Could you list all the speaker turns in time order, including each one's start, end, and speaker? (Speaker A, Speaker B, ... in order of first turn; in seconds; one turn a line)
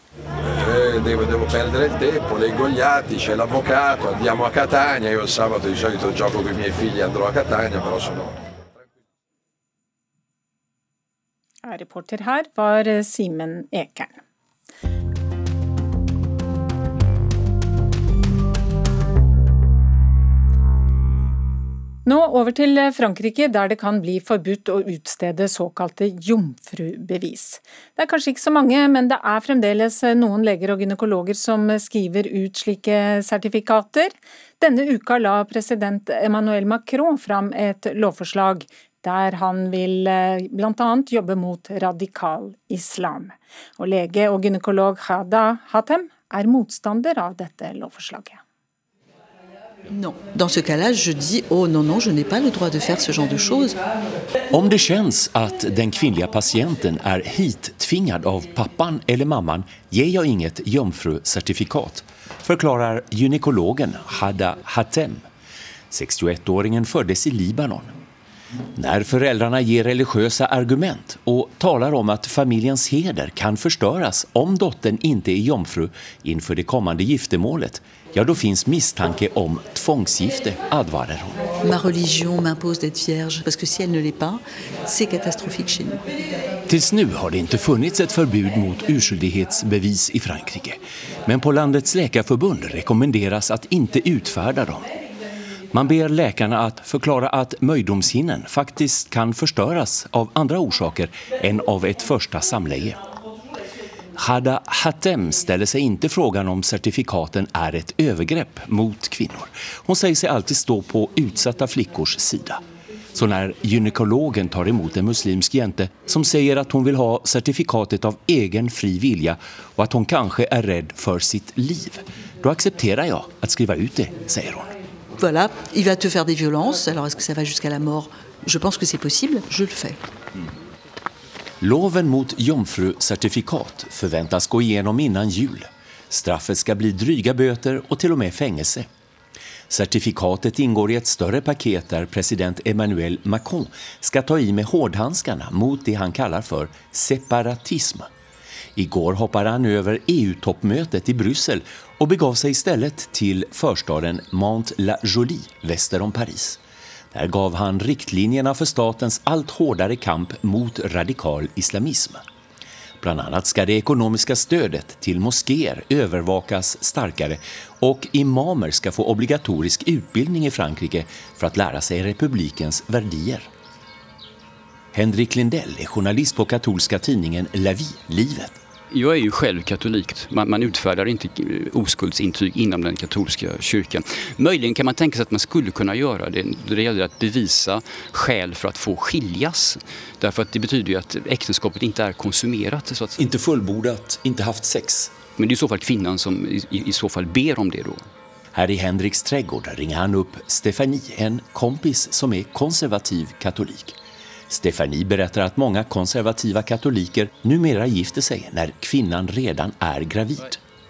Speaker A: 0.4-8.3
Speaker B: 11.6-14.2
Speaker B: 22.1-48.4
Speaker C: 50.1-53.7
Speaker D: 54.5-65.2
Speaker D: 65.9-68.0
Speaker D: 68.7-81.4
Speaker C: 81.7-84.4
Speaker C: 84.9-86.0
Speaker D: 86.7-94.9
Speaker D: 95.7-103.0
Speaker D: 104.1-112.6
Speaker D: 113.1-124.7
Speaker C: 125.2-129.9
Speaker D: 131.6-138.9
Speaker D: 139.7-148.1
Speaker D: 148.8-156.6
Speaker D: 157.1-162.2
Speaker D: 163.0-173.5
Speaker D: 174.9-178.6
Speaker E: 178.9-193.2
Speaker D: 193.2-195.2
Speaker E: 195.3-198.1
Speaker D: 198.5-204.0
Speaker D: 204.5-210.6